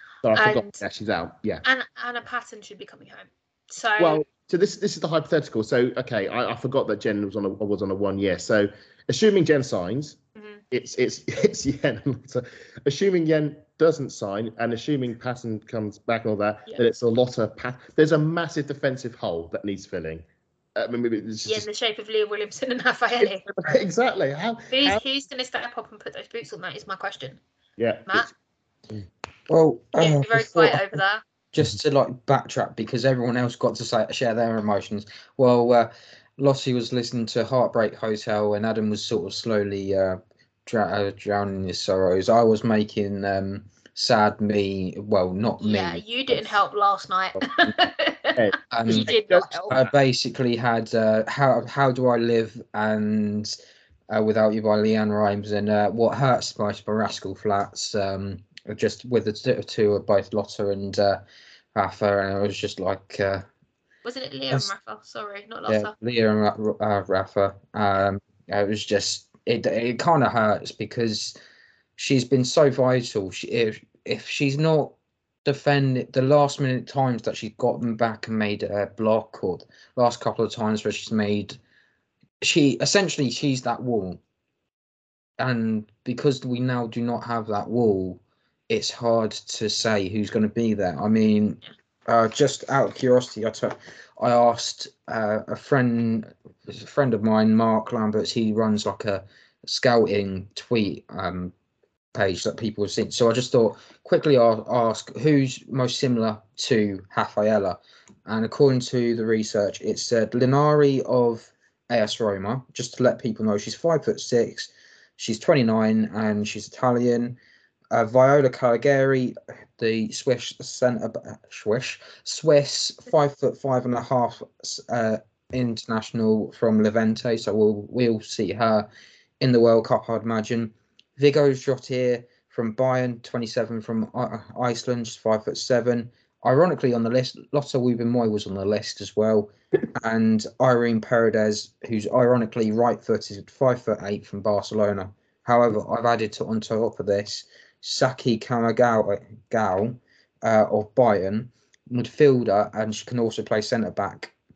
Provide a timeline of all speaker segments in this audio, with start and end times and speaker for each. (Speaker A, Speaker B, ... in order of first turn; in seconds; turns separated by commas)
Speaker A: 0.2-1.6, Speaker B: 0.3-0.8, Speaker B: 1.6-4.2, Speaker A: 4.0-10.2, Speaker B: 10.4-10.6, Speaker A: 10.7-21.7, Speaker B: 21.4-23.5, Speaker A: 23.2-25.0, Speaker B: 24.7-27.4, Speaker A: 27.8-28.3, Speaker C: 29.5-30.8, Speaker B: 30.0-31.2, Speaker C: 31.5-46.0, Speaker B: 45.6-49.7, Speaker A: 48.4-49.8, Speaker C: 48.7-49.1, Speaker C: 49.7-53.5, Speaker C: 54.1-61.2, Speaker C: 61.8-63.5, Speaker B: 64.0-65.9, Speaker C: 65.7-71.4, Speaker C: 72.0-81.6, Speaker C: 82.4-84.2, Speaker C: 85.4-101.5, Speaker C: 102.1-117.4, Speaker C: 117.9-128.9, Speaker C: 129.4-154.3